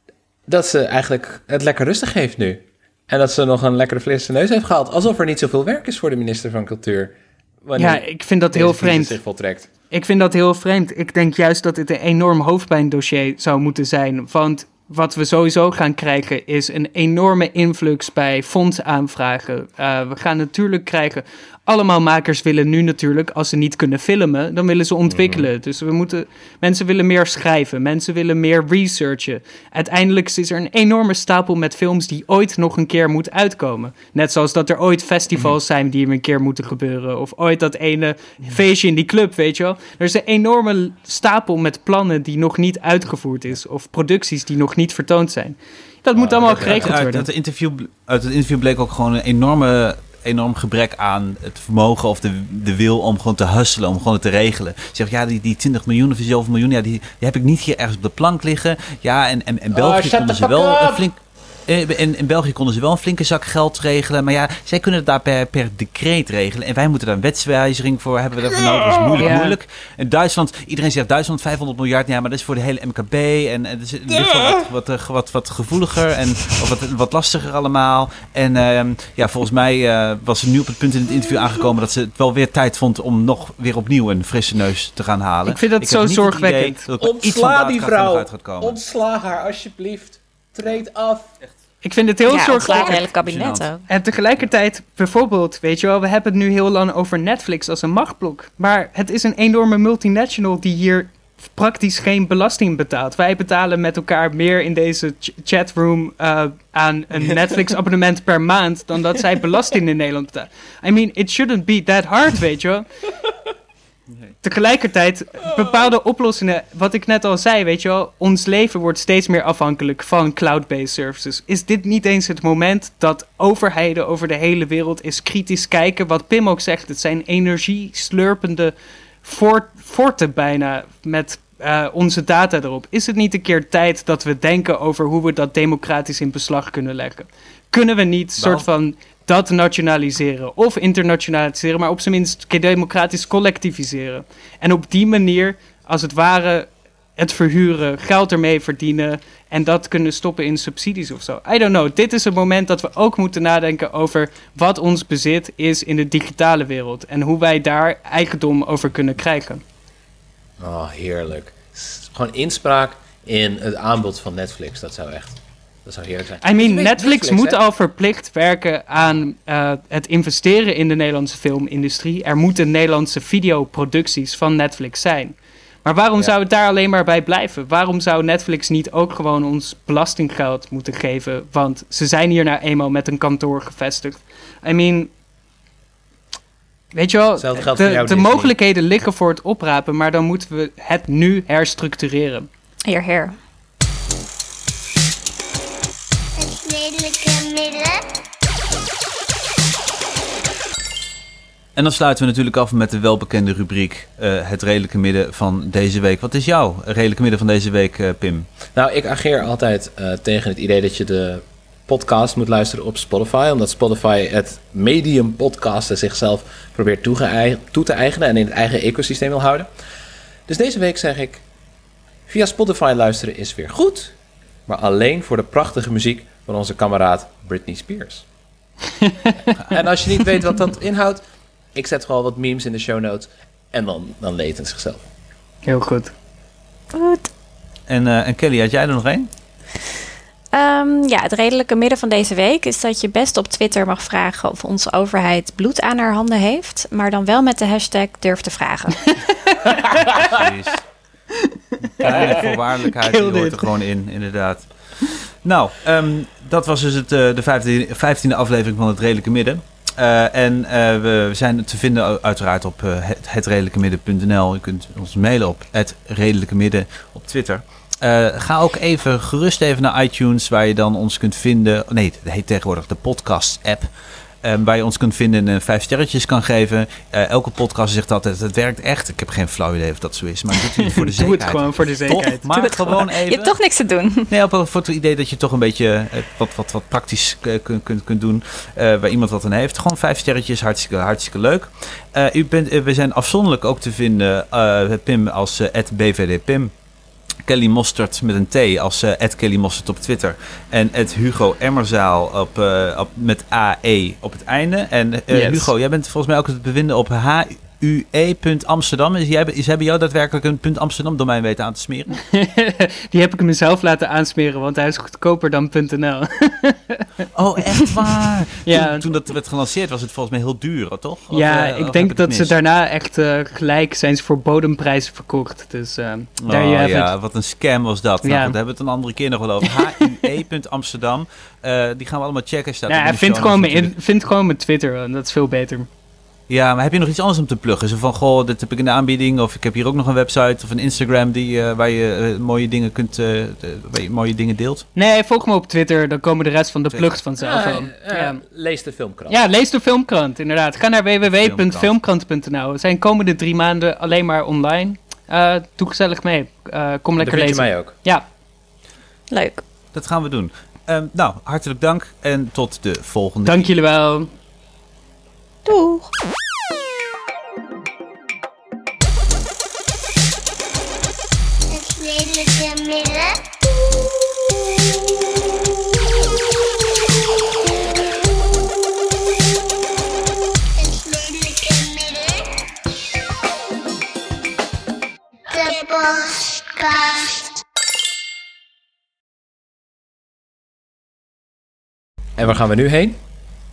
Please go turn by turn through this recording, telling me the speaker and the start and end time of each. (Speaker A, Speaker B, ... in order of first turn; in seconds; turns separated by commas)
Speaker A: 0.5-9.7, Speaker B: 7.8-9.2, Speaker B: 9.9-47.2, Speaker A: 25.1-25.5, Speaker A: 46.1-46.9, Speaker C: 46.4-88.8, Speaker A: 59.7-61.1, Speaker B: 69.2-69.6, Speaker B: 85.5-86.8, Speaker A: 87.0-91.3, Speaker B: 91.8-93.0, Speaker D: 92.2-93.8, Speaker C: 92.8-93.7, Speaker B: 93.9-112.9, Speaker B: 114.4-159.6, Speaker A: 138.4-138.7, Speaker A: 160.6-167.6, Speaker B: 166.4-185.1, Speaker B: 186.9-192.5, Speaker A: 187.3-188.6, Speaker D: 192.8-193.3, Speaker E: 196.4-198.0, Speaker C: 201.8-208.5, Speaker A: 208.7-219.7, Speaker A: 220.5-221.4, Speaker A: 222.3-224.1, Speaker A: 224.7-228.2, Speaker B: 229.0-229.3, Speaker A: 229.6-231.2, Speaker A: 231.7-235.1, Speaker B: 235.6-236.1, Speaker D: 236.9-237.3, Speaker C: 237.9-239.3, Speaker D: 240.5-249.1, Speaker B: 249.5-250.3, Speaker C: 250.1-250.8, Speaker B: 252.0-253.7, Speaker C: 252.0-273.9, Speaker C: 274.4-283.5, Speaker B: 280.9-282.5, Speaker D: 282.5-284.3, Speaker C: 284.3-296.7, Speaker C: 297.4-312.2, Speaker B: 305.3-305.7, Speaker B: 312.2-317.1, Speaker C: 317.3-322.5, Speaker B: 318.6-319.1, Speaker B: 321.3-327.1, Speaker C: 326.4-333.9, Speaker B: 328.2-328.6, Speaker B: 329.6-330.1, Speaker B: 332.9-335.9, Speaker C: 336.5-344.9, Speaker B: 344.9-348.4, Speaker A: 347.4-349.4, Speaker B: 349.3-358.2, Speaker C: 351.2-351.9, Speaker A: 357.2-357.9, Speaker D: 359.3-359.6, Speaker C: 359.9-363.7, Speaker B: 363.4-364.3, Speaker D: 365.6-366.1, Speaker E: 371.7-373.4, Speaker E: 380.8-382.4, Speaker E: 385.5-387.6, Speaker A: 392.4-393.2